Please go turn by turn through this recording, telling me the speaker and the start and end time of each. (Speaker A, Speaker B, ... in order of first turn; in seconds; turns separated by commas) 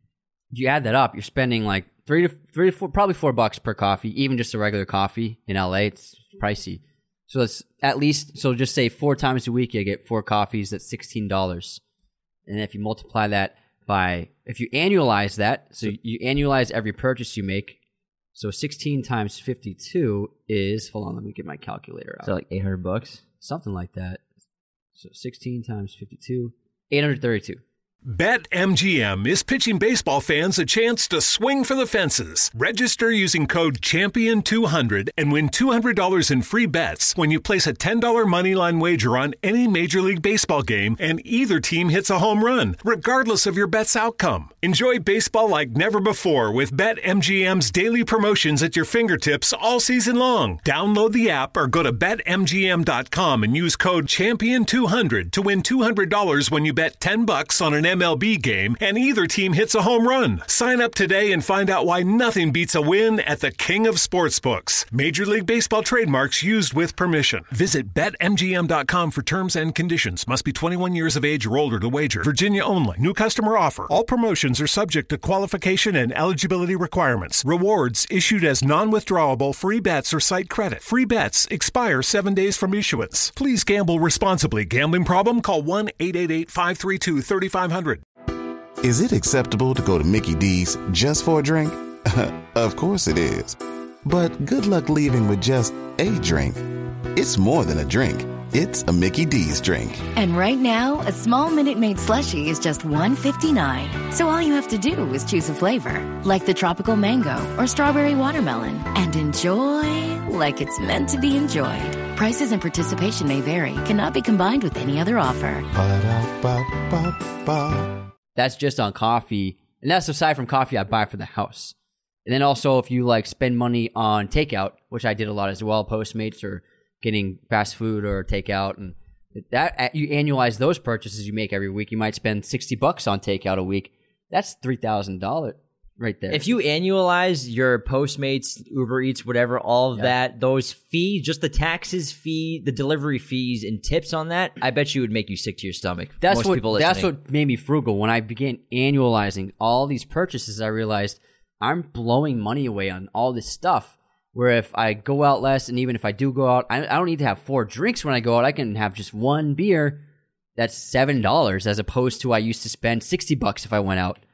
Speaker A: 0.5-11.8, Speaker A: 12.5-17.8, Speaker A: 18.3-22.3, Speaker B: 22.2-23.2, Speaker A: 23.4-24.2, Speaker A: 25.0-27.6, Speaker C: 28.1-88.0, Speaker D: 88.8-100.0, Speaker E: 100.1-115.7, Speaker D: 115.7-118.0, Speaker A: 118.4-121.7, Speaker A: 122.2-136.4, Speaker B: 136.3-147.1, Speaker A: 146.2-160.0, Speaker A: 160.6-164.2